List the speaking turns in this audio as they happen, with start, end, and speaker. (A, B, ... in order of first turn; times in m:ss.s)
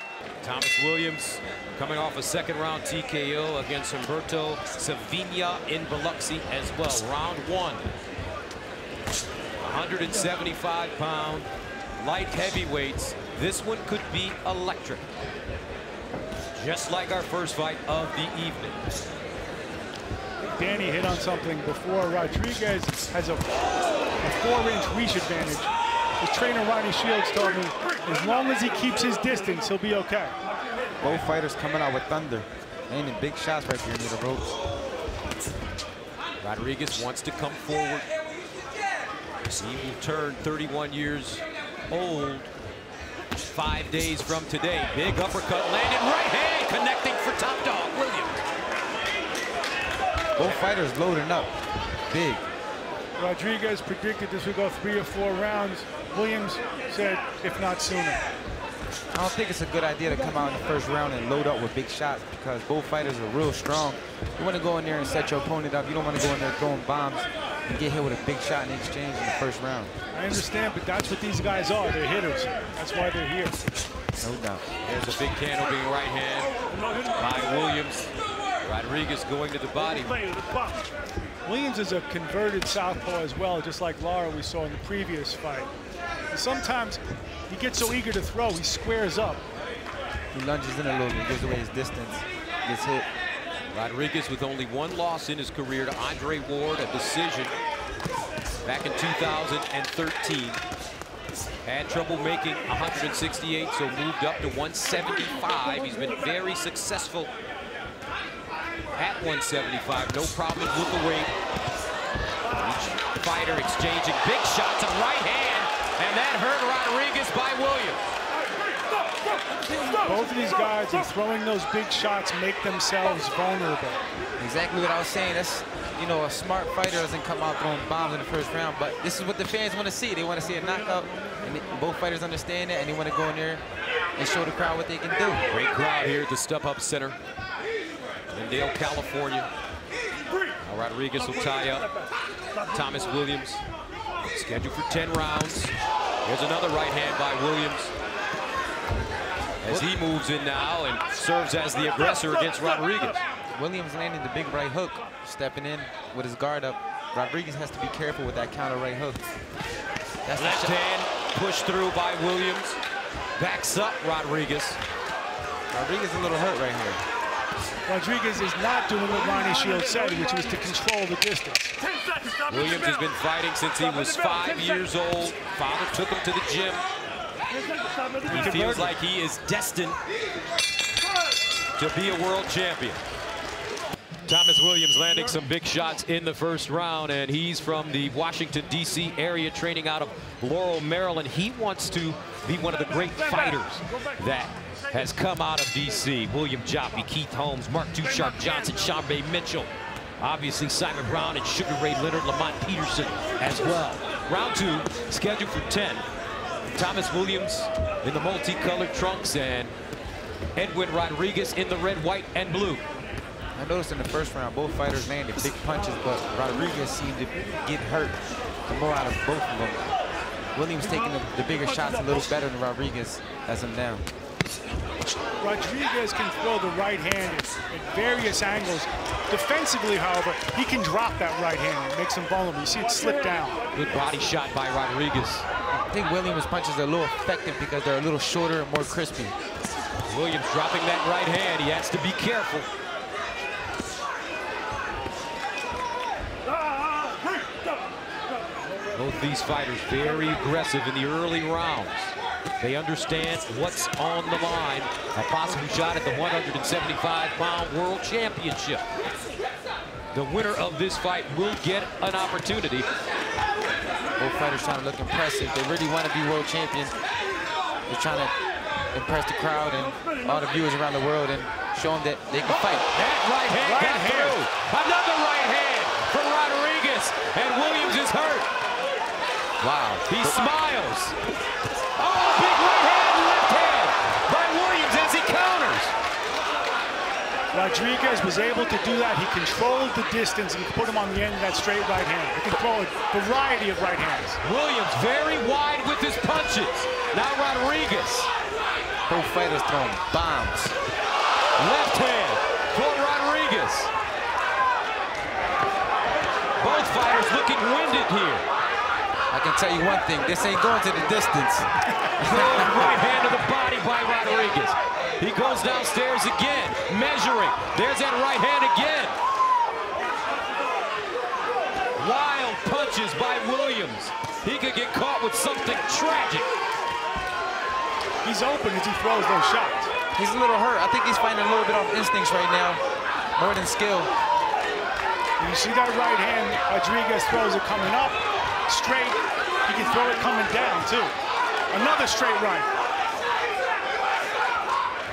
0:00.4-0:07.9 A
0:09.6-0:15.1 A
0:16.6-0:18.8 A
0:20.4-0:23.5 B
0:24.2-0:30.3 B
0:31.0-0:34.5 C
0:36.4-0:38.1 A
0:39.4-0:42.5 A
0:43.5-0:48.4 A
0:50.4-0:51.5 C
0:52.1-0:52.4 C
0:53.2-0:58.2 B
0:59.1-1:09.9 C
1:10.1-1:13.6 B
1:14.2-1:14.6 C
1:14.8-1:16.5 A
1:17.1-1:18.1 A
1:18.6-1:20.2 A
1:21.4-1:25.7 B
1:26.3-1:29.4 B
1:30.3-1:33.1 C
1:33.7-1:37.5 A
1:38.6-1:40.6 A
1:41.6-1:47.3 A
1:49.0-1:51.3 A
1:52.5-1:58.0 A
2:00.0-2:04.0 B
2:04.4-2:13.6 C
2:14.2-2:15.4 C
2:15.5-2:17.2 A
2:18.3-2:19.5 A
2:20.6-2:21.9 A
2:22.7-2:23.6 A
2:24.3-2:25.7 A
2:26.2-2:27.9 A
2:29.6-2:33.2 A
2:33.5-2:39.2 C
2:40.2-2:40.7 C
2:40.3-2:42.8 A
2:43.4-2:44.8 A
2:45.7-2:47.0 C
2:47.8-2:51.7 B
2:52.5-2:56.8 A
2:58.3-3:00.0 A
2:58.3-2:58.9 B
3:01.8-3:03.0 A
3:04.2-3:26.0 A
3:26.7-3:29.7 A
3:30.6-3:32.8 A
3:33.6-3:39.9 C
3:40.5-3:44.0 C
3:45.4-3:53.6 B
3:53.7-3:55.4 A
3:55.7-3:59.3 C
4:00.1-4:02.7 A
4:09.0-4:18.8 A
4:20.1-4:22.8 A
4:24.2-4:26.9 C
4:27.9-4:28.3 C
4:28.9-4:32.8 C
4:32.4-4:38.5 A
4:33.6-4:34.4 B
4:39.6-4:40.5 C
4:40.1-4:41.1 A
4:42.0-4:45.9 A
4:47.5-4:54.4 B
4:54.4-4:58.3 A
4:59.1-5:00.8 C
5:01.6-5:03.9 A
5:06.6-5:08.4 A
5:09.3-5:12.9 C
5:12.2-5:19.1 A
5:22.0-5:26.5 A
5:28.2-5:29.9 B
5:30.2-5:32.8 C
5:33.4-5:34.1 C
5:35.4-5:41.1 B
5:41.7-5:42.7 B